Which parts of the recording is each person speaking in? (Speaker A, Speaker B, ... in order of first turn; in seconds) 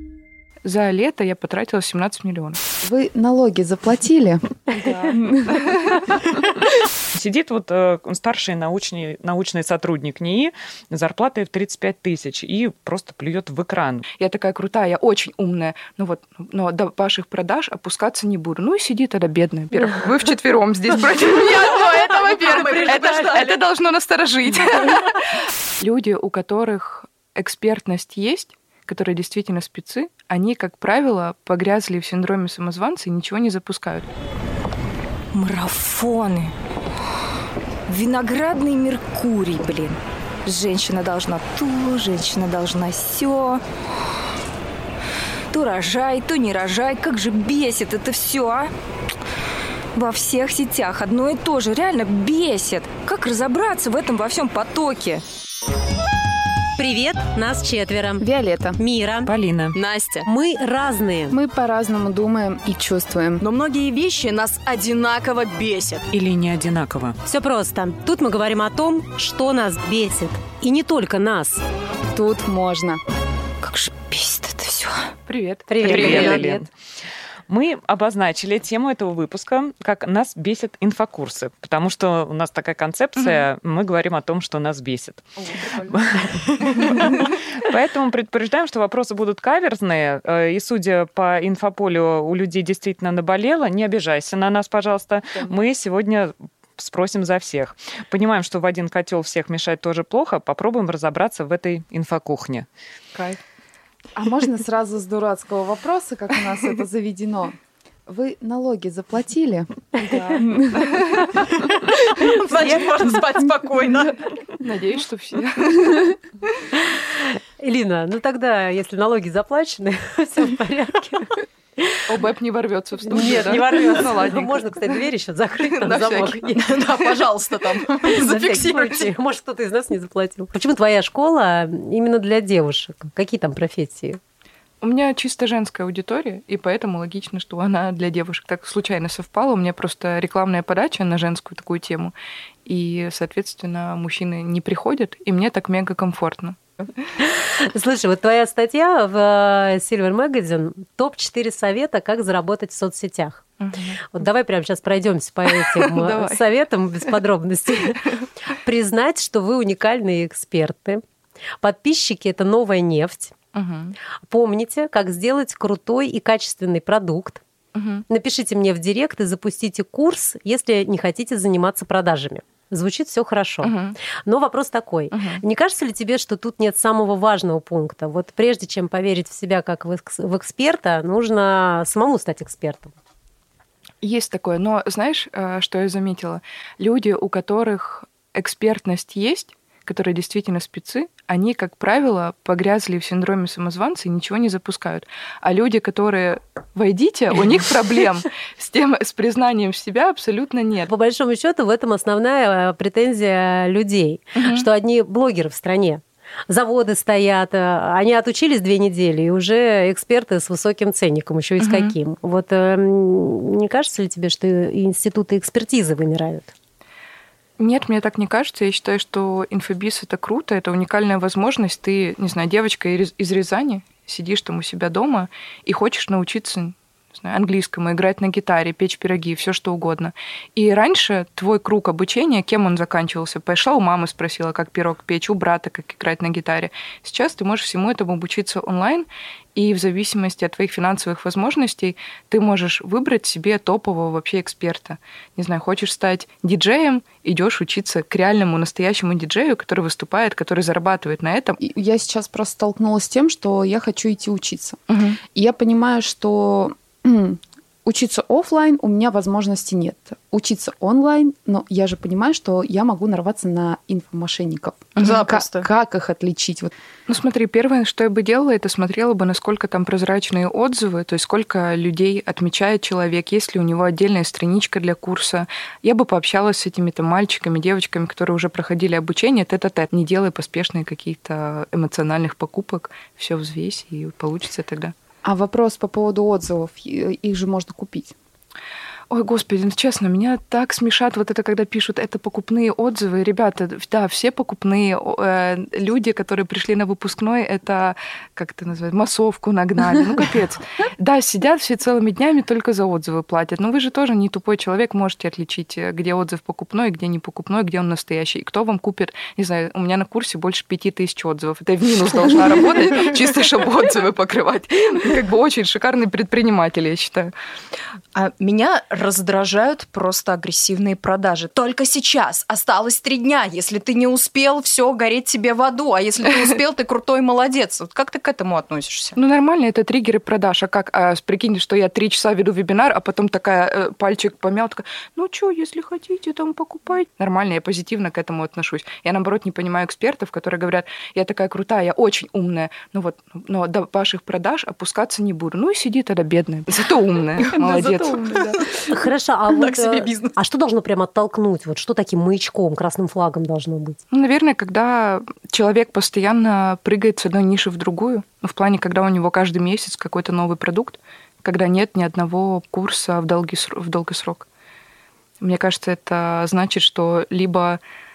Speaker A: 0.6-2.6, 14.2-34.1, 75.3-76.3, 114.6-116.0, 122.1-125.0, 125.6-126.4, 134.8-142.1, 142.6-146.6, 153.6-154.0, 155.5-156.4, 163.5-164.0, 167.7-168.0, 173.6-174.0, 175.1-175.4, 184.0-200.9, 204.3-204.7, 211.6-211.9, 217.6-251.6, 254.9-255.2, 265.0-265.2, 267.1-284.9, 289.1-317.3, 329.1-348.5, 354.1-364.5, 365.4-367.8
Speaker B: 2.8-6.2, 58.2-58.8, 61.3-63.4, 72.1-73.0, 104.2-109.7, 110.4-111.9, 251.6-254.8, 255.3-266.7, 285.2-288.1, 347.5-348.8
Speaker C: 7.1-14.0, 59.2-59.8, 66.1-67.2, 75.8-76.7, 77.5-102.7
Speaker D: 21.4-23.6, 59.7-60.3, 63.4-66.1, 75.8-76.4, 112.2-114.2, 126.4-129.1, 265.0-265.7, 318.1-329.2, 347.4-348.9, 349.5-350.4
Speaker E: 35.3-36.5, 37.9-43.6, 45.5-48.7, 49.9-55.2, 73.6-75.1
Speaker F: 56.8-58.2, 58.8-59.3, 60.2-61.4, 67.2-71.6, 75.7-76.6, 110.0-110.4, 117.0-122.0, 123.0-126.8, 128.0-134.2, 147.2-153.5, 154.0-161.0, 161.6-163.3, 164.3-167.4, 168.1-182.9, 200.9-216.5, 348.9-354.0